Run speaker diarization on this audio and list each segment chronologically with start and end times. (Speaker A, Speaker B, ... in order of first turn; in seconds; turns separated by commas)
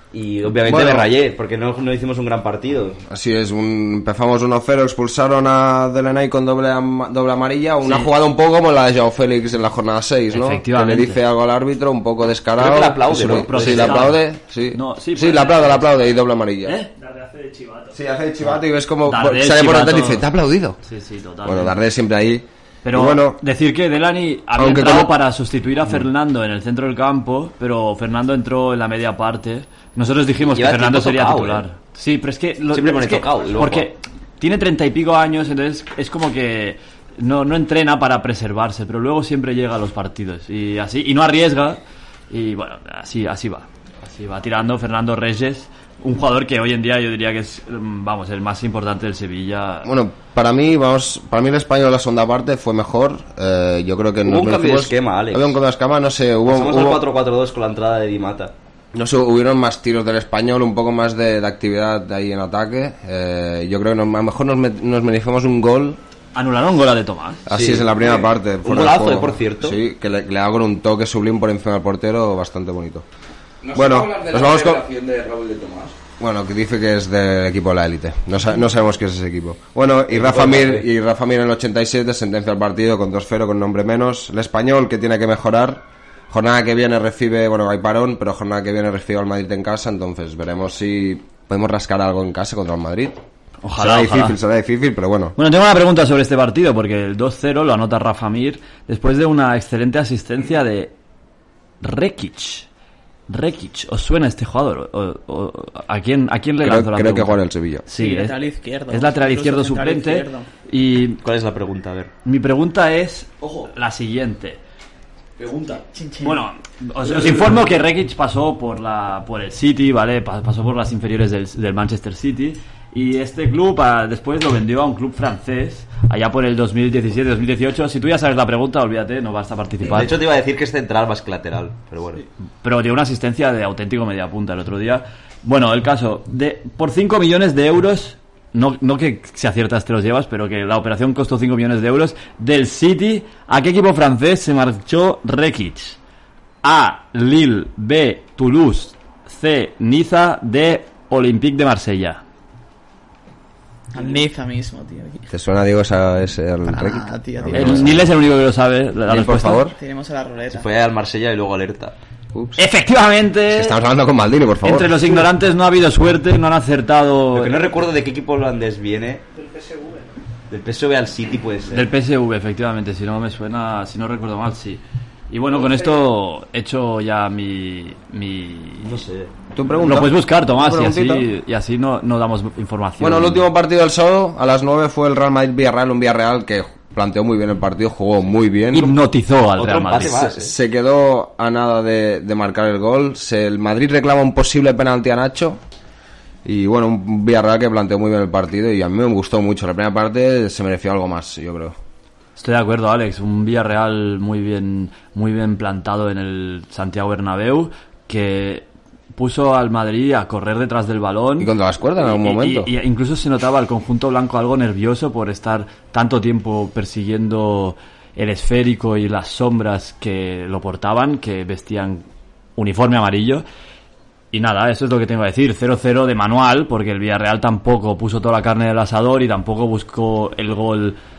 Speaker A: 0.1-3.0, Speaker B: 0.6-1.1, Speaker B: 3.0-16.8, Speaker C: 7.8-8.1, Speaker C: 10.3-11.2, Speaker A: 12.6-14.1, Speaker C: 13.3-15.9, Speaker C: 16.6-16.9, Speaker D: 16.9-18.0, Speaker B: 17.9-20.8, Speaker C: 19.0-20.3, Speaker C: 20.8-21.8, Speaker B: 21.4-23.4, Speaker C: 22.8-49.9, Speaker B: 24.6-25.2, Speaker A: 30.4-31.6, Speaker A: 32.7-33.9, Speaker B: 49.8-57.0, Speaker A: 54.2-55.5, Speaker A: 56.4-58.5, Speaker B: 58.9-66.0, Speaker C: 66.3-67.4, Speaker B: 67.5-73.0, Speaker A: 67.5-69.8, Speaker E: 73.6-75.9, Speaker B: 73.7-74.8, Speaker B: 76.2-93.2, Speaker A: 80.1-80.8, Speaker C: 93.6-94.4, Speaker B: 93.8-95.3, Speaker C: 95.4-100.9, Speaker C: 101.8-102.7, Speaker C: 103.3-108.3, Speaker B: 106.6-107.8, Speaker F: 107.9-110.5, Speaker C: 108.9-111.2, Speaker A: 111.2-112.1, Speaker C: 112.2-114.6, Speaker E: 113.4-113.7, Speaker E: 115.4-115.8, Speaker F: 115.9-116.4, Speaker C: 116.2-130.2, Speaker E: 117.0-117.6, Speaker A: 129.8-132.2, Speaker C: 132.6-146.0, Speaker C: 146.6-152.2, Speaker F: 153.9-155.3, Speaker B: 155.3-158.0, Speaker F: 156.7-158.0, Speaker C: 157.5-159.6, Speaker B: 159.1-159.8, Speaker F: 159.7-160.7, Speaker A: 160.5-161.9, Speaker B: 162.3-162.6, Speaker C: 162.6-163.8, Speaker B: 163.5-165.2, Speaker C: 164.6-167.7, Speaker A: 167.3-169.2, Speaker D: 169.3-170.2, Speaker A: 170.5-171.9, Speaker C: 171.7-178.9, Speaker D: 175.5-176.0, Speaker A: 178.8-179.3, Speaker B: 179.5-181.3, Speaker C: 179.8-183.5, Speaker B: 183.0-188.9, Speaker C: 188.7-190.1, Speaker A: 189.6-190.5, Speaker B: 190.1-195.6, Speaker B: 196.4-201.8, Speaker C: 202.4-211.5, Speaker B: 211.4-212.7, Speaker C: 212.2-222.1, Speaker C: 222.6-223.4, Speaker C: 224.3-231.0